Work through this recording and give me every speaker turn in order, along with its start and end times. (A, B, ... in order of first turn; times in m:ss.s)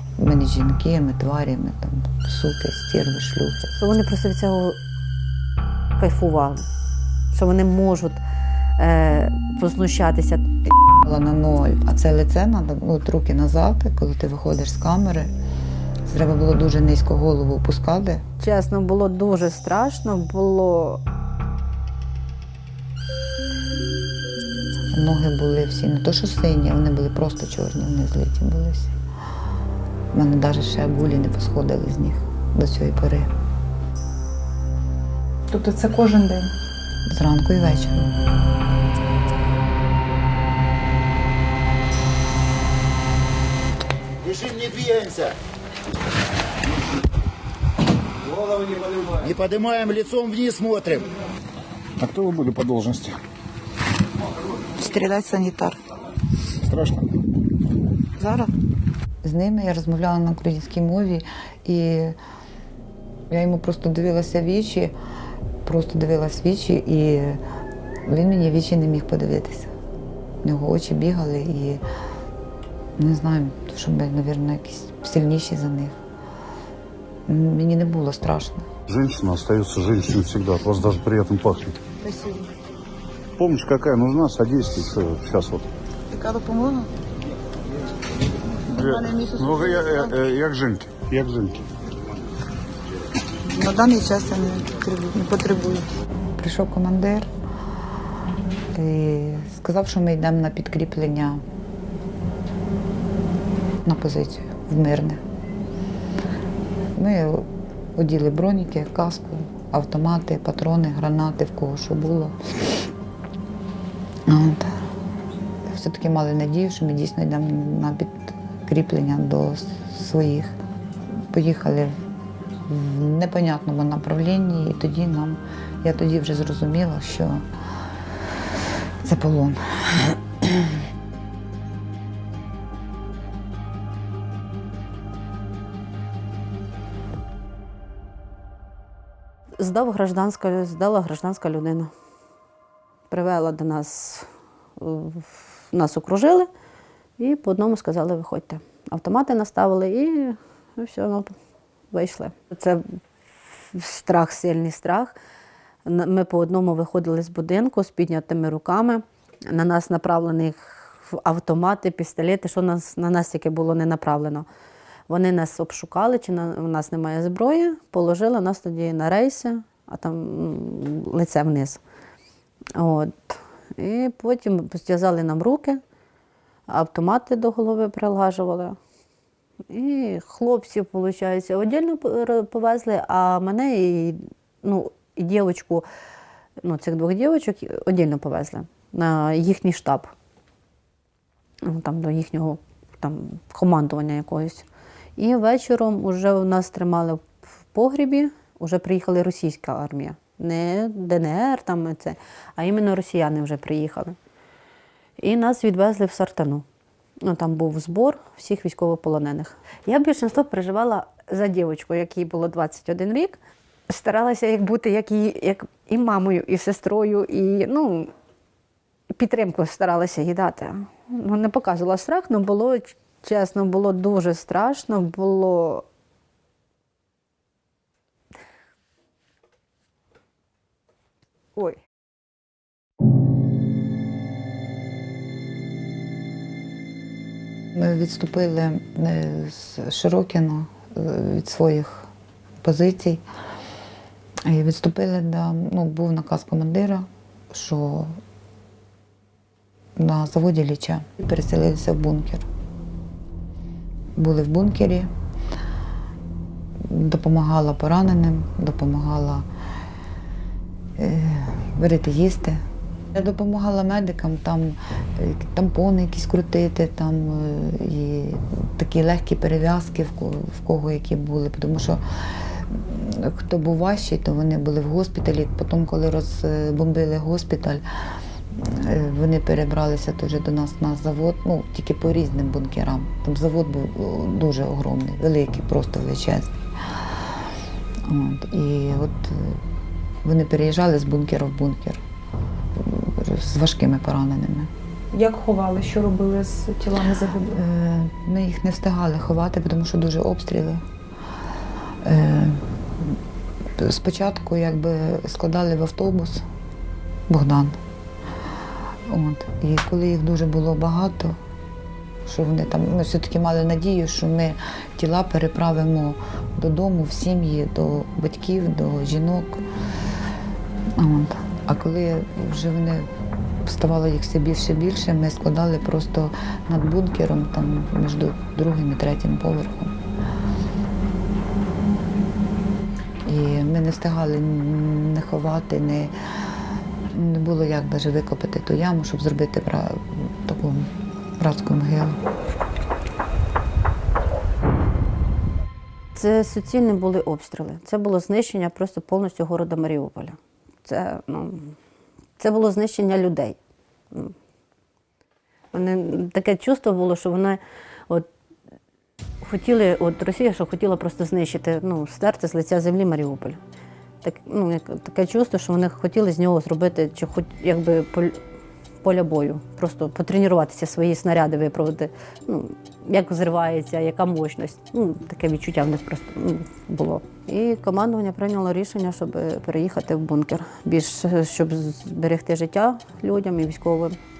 0:00.2-0:03.7 A
0:03.8-0:04.8 B
0:06.0-0:06.7 B
0:07.3-0:08.2 B
0:08.8-0:10.4 B
0:10.9-0:15.3 A
0:16.1-0:18.2 A
0:18.4-0:21.0 B
0:24.9-0:28.9 A
0:30.1-0:33.3 A
0:35.5-0:36.5 C
0:37.1-0:38.1 A
0:44.2-0:45.4 D
0:48.2-0:51.1 D
0:52.0-0:53.2 E
0:54.7-0:55.8 A
0:56.6-0:57.0 E
0:58.2-0:58.5 A
0:59.2-1:02.2 A
1:03.3-1:04.9 A
1:05.6-1:07.4 A
1:08.1-1:09.7 A
1:10.4-1:11.8 A
1:13.0-1:16.0 A
1:17.3-1:18.7 A
1:18.9-1:21.8 E
1:22.0-1:22.5 A
1:23.4-1:25.7 E
1:26.1-1:26.9 A
1:28.7-1:31.6 E
1:28.7-1:30.2 A
1:33.5-1:37.3 A
1:38.7-1:41.4 A
1:43.8-1:45.2 A
1:47.0-1:52.8 A
1:54.3-1:54.7 A
1:55.6-2:00.5 A
2:01.3-2:01.9 A
2:02.6-2:07.4 A
2:09.0-2:10.8 A
2:19.6-2:21.9 B
2:23.1-2:26.5 B
2:27.2-2:31.3 B
2:31.9-2:33.0 B
2:33.5-2:35.1 B
2:35.8-2:44.4 B
2:45.1-2:51.8 B
2:52.7-2:55.8 B
2:56.7-2:58.8 B
2:59.7-3:05.8 B
3:06.6-3:10.1 B
3:11.6-3:14.6 B
3:15.2-3:24.2 B
3:25.2-3:26.6 B
3:27.2-3:33.4 B
3:33.9-3:38.1 B
3:39.2-3:45.8 B
3:57.7-4:02.1 A
4:02.6-4:03.2 A
4:04.4-4:08.2 A
4:10.0-4:12.5 A
4:14.2-4:15.1 A
4:16.8-4:19.5 A
4:21.0-4:22.6 A
4:23.1-4:37.8 A
4:38.5-4:47.0 A
4:48.0-4:49.6 A
4:50.2-4:52.0 A
4:52.8-4:54.7 A
4:55.1-4:57.6 C
4:57.5-5:00.8 A
5:02.0-5:03.2 A
5:03.8-5:06.4 A
5:07.3-5:07.8 A
5:09.1-5:11.4 A
5:12.2-5:19.6 A
5:21.0-5:23.1 A
5:23.6-5:29.9 A
5:33.2-5:36.1 A
5:37.1-5:42.2 A
5:46.1-5:51.8 B
5:52.4-5:53.6 B
5:55.7-5:58.3 B
5:59.4-6:03.6 B
6:04.2-6:08.4 B
6:09.0-6:24.2 B